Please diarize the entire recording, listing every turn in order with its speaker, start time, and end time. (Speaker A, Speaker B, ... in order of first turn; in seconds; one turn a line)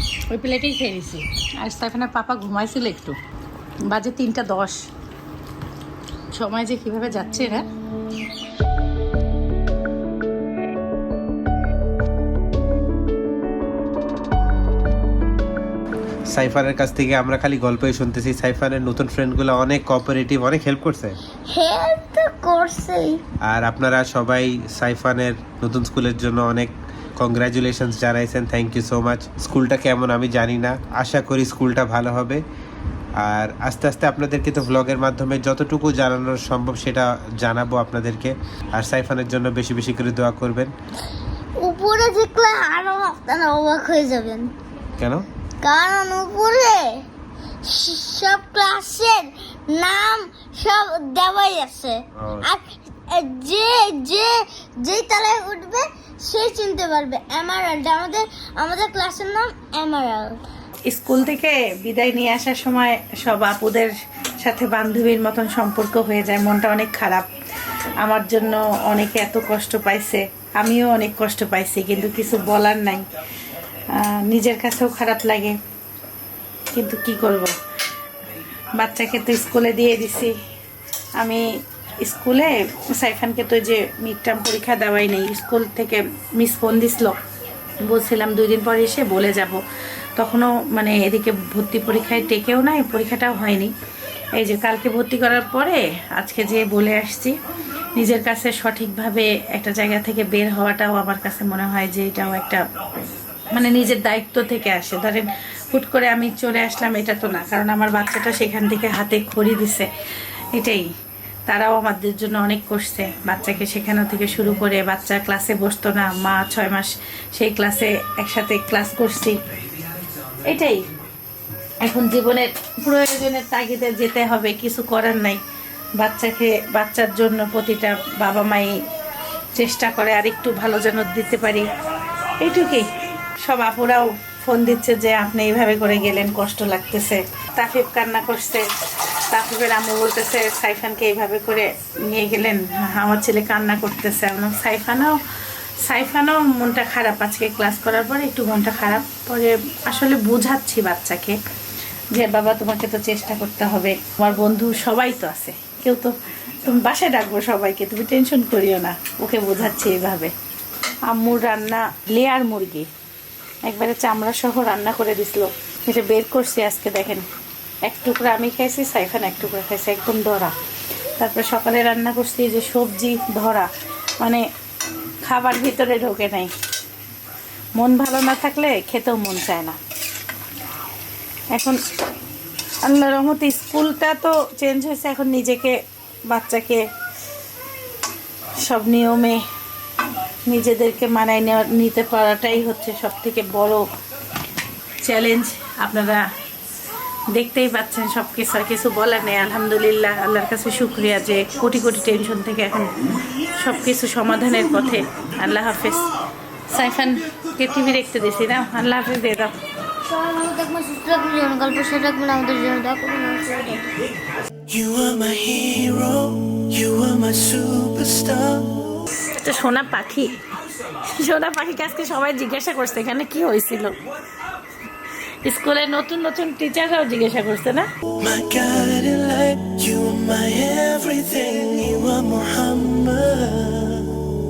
Speaker A: 0.3-3.2
Speaker A: 3.9-4.8
Speaker A: 6.3-7.6
Speaker B: 16.3-21.2
Speaker C: 21.5-23.2
Speaker B: 23.5-32.4
Speaker B: 33.2-40.7
Speaker C: 41.6-44.5
Speaker B: 45.0-45.2
Speaker C: 45.6-47.0
Speaker C: 47.6-60.4
Speaker B: 52.2-52.5
Speaker A: 60.9-67.3
Speaker A: 68.0-73.0
Speaker A: 73.9-75.5
Speaker A: 76.7-77.5
Speaker A: 78.8-80.3
Speaker A: 81.2-81.4
Speaker A: 82.0-87.2
Speaker A: 87.8-89.6
Speaker A: 90.2-93.7
Speaker A: 94.3-97.3
Speaker A: 97.9-102.6
Speaker A: 103.5-109.9
Speaker A: 110.5-110.9
Speaker A: 111.5-119.4
Speaker A: 120.4-120.8
Speaker A: 121.8-125.4
Speaker A: 126.0-128.8
Speaker A: 129.5-131.7
Speaker A: 132.4-132.9
Speaker A: 133.4-138.6
Speaker A: 139.3-145.2
Speaker A: 145.8-151.4
Speaker A: 152.1-160.3
Speaker A: 161.1-162.9
Speaker A: 163.7-167.2
Speaker A: 167.8-170.5
Speaker A: 171.2-173.7
Speaker A: 175.2-176.5
Speaker A: 177.8-179.8
Speaker A: 182.8-185.8
Speaker A: 186.3-186.8
Speaker A: 188.6-189.4
Speaker A: 190.4-193.9
Speaker A: 195.0-196.2
Speaker A: 197.3-206.0
Speaker A: 206.7-209.5
Speaker C: 210.1-213.9
Speaker D: 214.7-219.0
Speaker A: 219.3-220.4
Speaker A: 221.0-224.0
Speaker A: 225.4-227.8
Speaker D: 228.2-234.2